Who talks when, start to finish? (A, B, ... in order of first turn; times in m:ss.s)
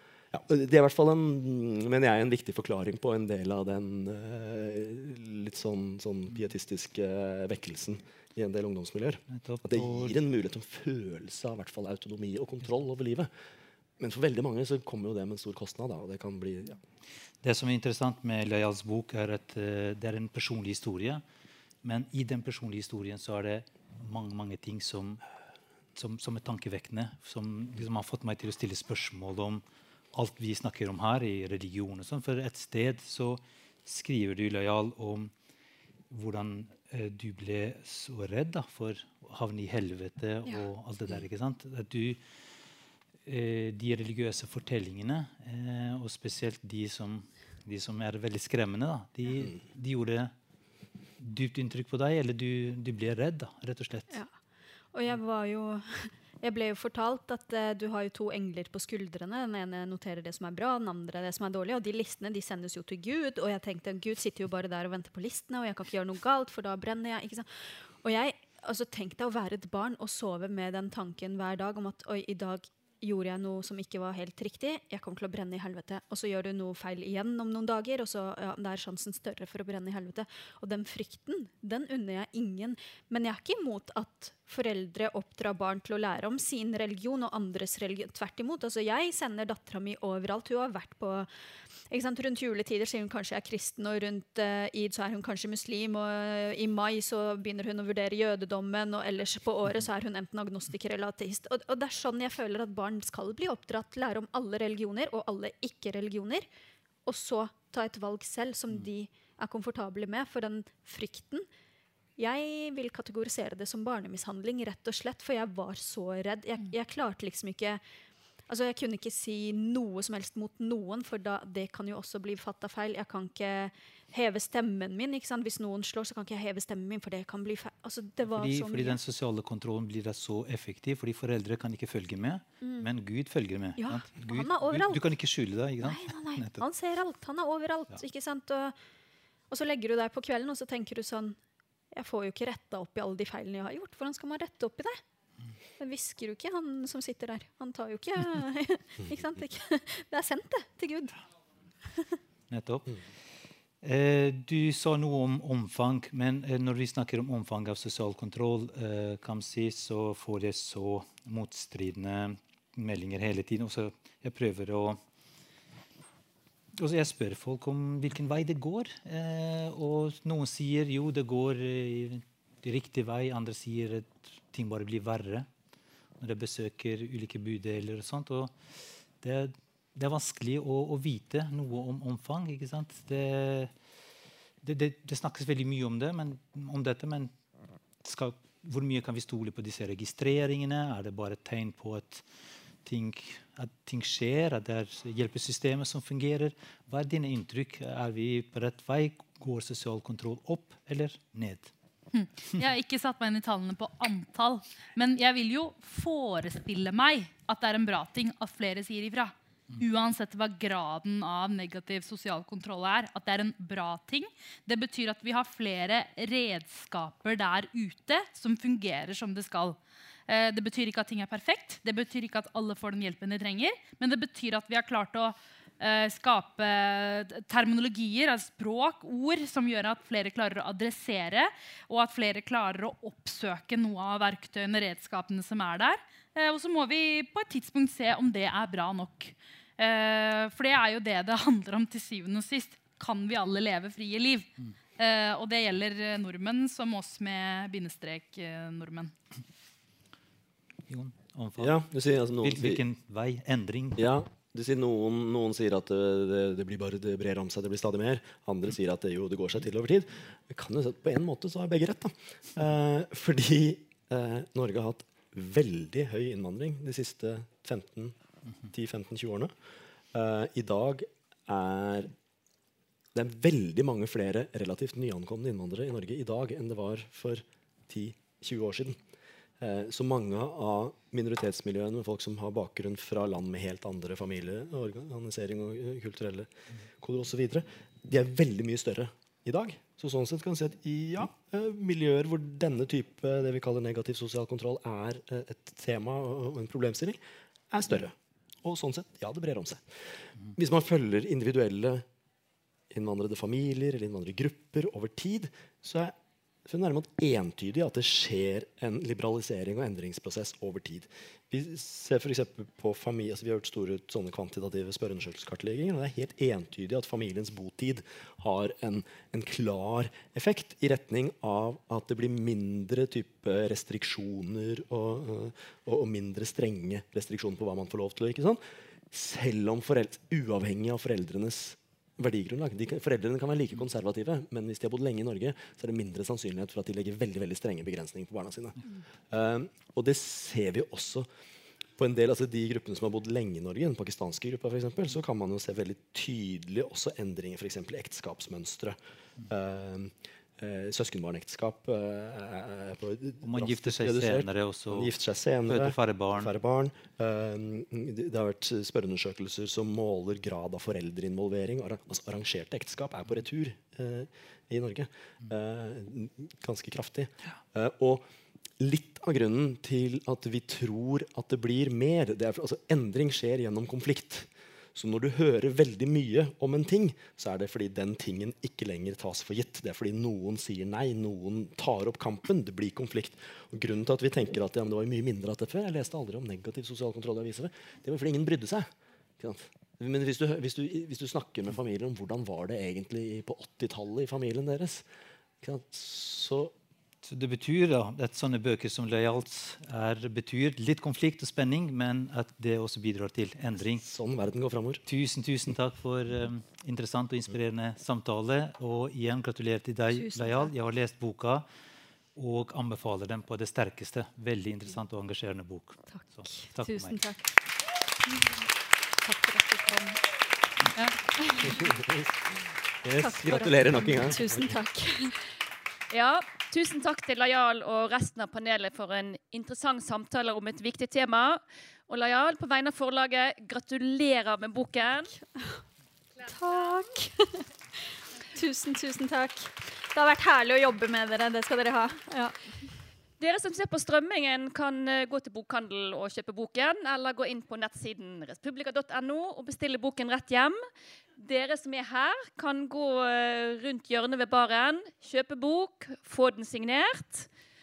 0:00.3-0:13.3 A
0:09.3-0:10.2 B
0:14.0-0:16.8 A
0:17.4-0:21.2 B
0:21.8-0:25.2 B
0:25.9-0:35.3 B
0:36.1-0:42.2 B
0:43.2-0:50.3 B
0:51.2-0:54.1 B
0:54.9-1:07.5 C
1:08.0-1:31.3 C
1:31.9-1:46.5 C
1:47.0-1:51.5 C
1:52.2-1:57.8 C
1:58.5-2:09.0 C
2:08.3-2:16.6 B
2:12.6-2:12.9 C
2:13.8-2:15.0 C
2:15.8-2:18.8 C
2:19.5-2:21.4 C
2:21.9-2:25.0 C
2:25.8-2:31.2 C
2:32.5-2:33.0 B
2:33.8-2:45.0 B
2:46.8-2:55.5 B
2:56.2-2:58.5 B
2:59.2-3:03.7 B
3:04.6-3:07.3 B
3:08.0-3:12.2 B
3:12.8-3:21.7 B
3:22.1-4:09.1 D
4:10.9-4:11.8 B
4:11.6-4:12.8 A
4:12.4-4:14.1 B
4:14.0-4:28.2 A
4:28.7-4:29.5 A
4:30.1-4:32.1 A
4:33.1-4:39.0 A
4:39.6-4:57.2 A
4:57.7-4:59.8 A
5:00.5-5:02.0 A
5:02.9-5:06.1 A
5:06.6-5:41.3 A
5:42.0-6:08.2 A
5:53.4-5:55.1 B
5:55.7-5:56.5 B
6:08.8-6:35.0 A
6:35.6-6:36.7 A
6:37.2-6:44.0 B
6:44.0-6:45.0 A
6:45.0-6:51.6 B
6:50.2-6:50.7 C
6:52.4-6:57.2 B
6:56.1-6:57.5 C
6:59.2-7:00.2 C
7:01.4-7:01.8 C
7:03.0-7:04.6 A
7:03.2-7:05.4 C
7:06.1-7:15.3 E
7:15.5-7:15.8 C
7:16.4-7:17.7 C
7:18.5-7:22.9 C
7:23.4-7:30.8 E
7:31.4-7:37.5 E